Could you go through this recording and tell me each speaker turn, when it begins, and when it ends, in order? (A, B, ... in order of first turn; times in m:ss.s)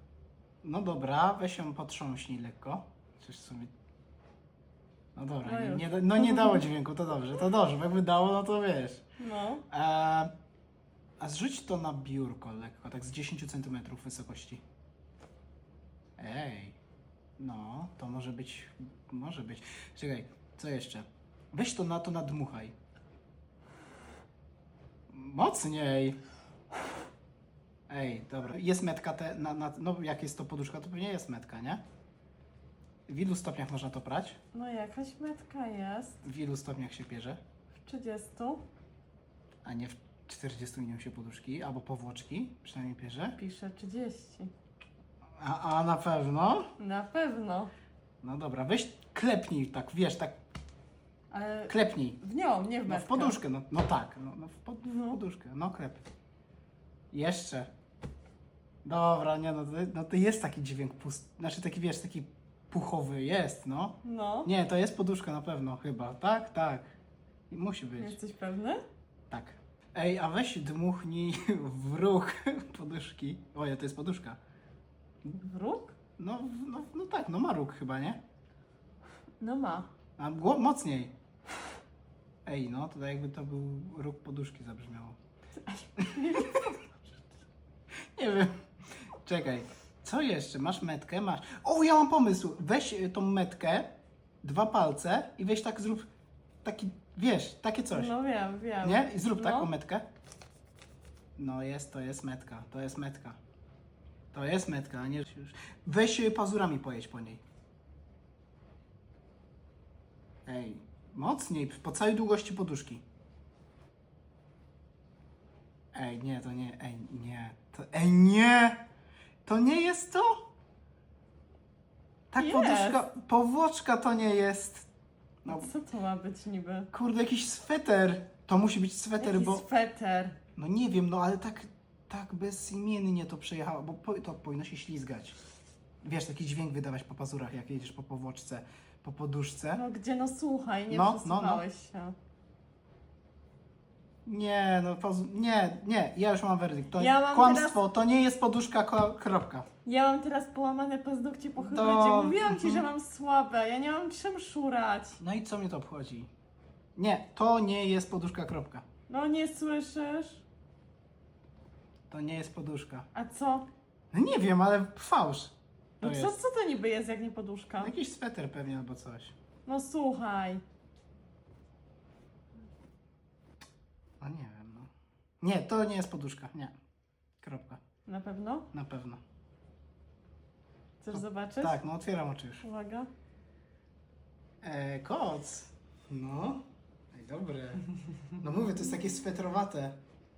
0:00.6-0:03.7 A
0:05.2-0:09.0 A
0:05.4-0:06.6 B
0:09.2-0:09.6 B
0:09.7-0:10.3 A
0:11.2-0:14.6 A
0:16.2-0:16.8 A
0:17.4-0:22.8 A
0:25.1-0:26.2 A
0:27.9-0:31.8 A
0:33.1-0:34.4 A
0:34.5-0:36.2 B
0:36.2-0:37.4 A
0:37.8-0:38.6 B
0:39.6-0:43.4 A
0:43.4-0:44.5 B
0:45.4-0:46.7 A
0:46.8-0:47.7 B
0:48.2-0:50.4 A
0:51.3-0:53.4 B
0:51.7-0:52.2 A
0:52.9-0:56.0 A
0:54.9-0:55.2 B
0:57.1-0:57.7 A
0:58.8-1:06.8 A
1:04.0-1:04.5 B
1:07.5-1:08.2 A
1:08.0-1:08.8 B
1:09.3-1:14.4 A
1:15.4-1:16.0 B
1:16.2-1:18.2 A
1:19.4-1:19.9 B
1:20.2-1:21.1 A
1:22.4-1:25.2 A
1:25.6-1:26.8 B
1:26.1-1:26.6 A
1:28.2-1:28.5 A
1:29.2-1:36.1 A
1:36.6-1:38.1 A
1:37.9-1:39.7 B
1:38.8-1:40.1 A
1:41.4-1:43.4 A
1:44.3-1:47.4 A
1:50.5-1:53.0 A
1:55.9-1:58.8 A
1:59.4-2:00.5 A
2:02.3-2:04.9 A
2:02.4-2:03.1 B
2:05.4-2:05.7 A
2:05.5-2:06.9 B
2:06.9-2:09.7 A
2:09.2-2:10.4 B
2:10.6-2:15.4 A
2:16.0-2:19.8 A
2:19.7-2:22.2 B
2:20.9-2:21.6 A
2:24.2-2:29.7 A
2:27.0-2:27.8 B
2:29.8-2:35.2 B
2:31.6-2:32.8 A
2:35.2-2:36.3 A
2:37.0-2:38.8 A
2:39.1-2:40.4 B
2:42.1-2:43.1 A
2:43.2-2:43.7 B
2:44.1-2:46.4 A
2:46.0-2:47.9 B
2:47.8-2:49.4 A
2:49.7-2:50.6 B
2:54.2-2:54.9 A
2:55.4-2:56.7 A
2:57.4-2:57.8 A
2:58.1-2:58.7 B
2:58.7-2:59.2 A
3:01.0-3:01.8 B
3:01.1-3:02.6 A
3:02.6-3:03.1 B
3:04.6-3:07.9 A
3:08.4-3:10.0 A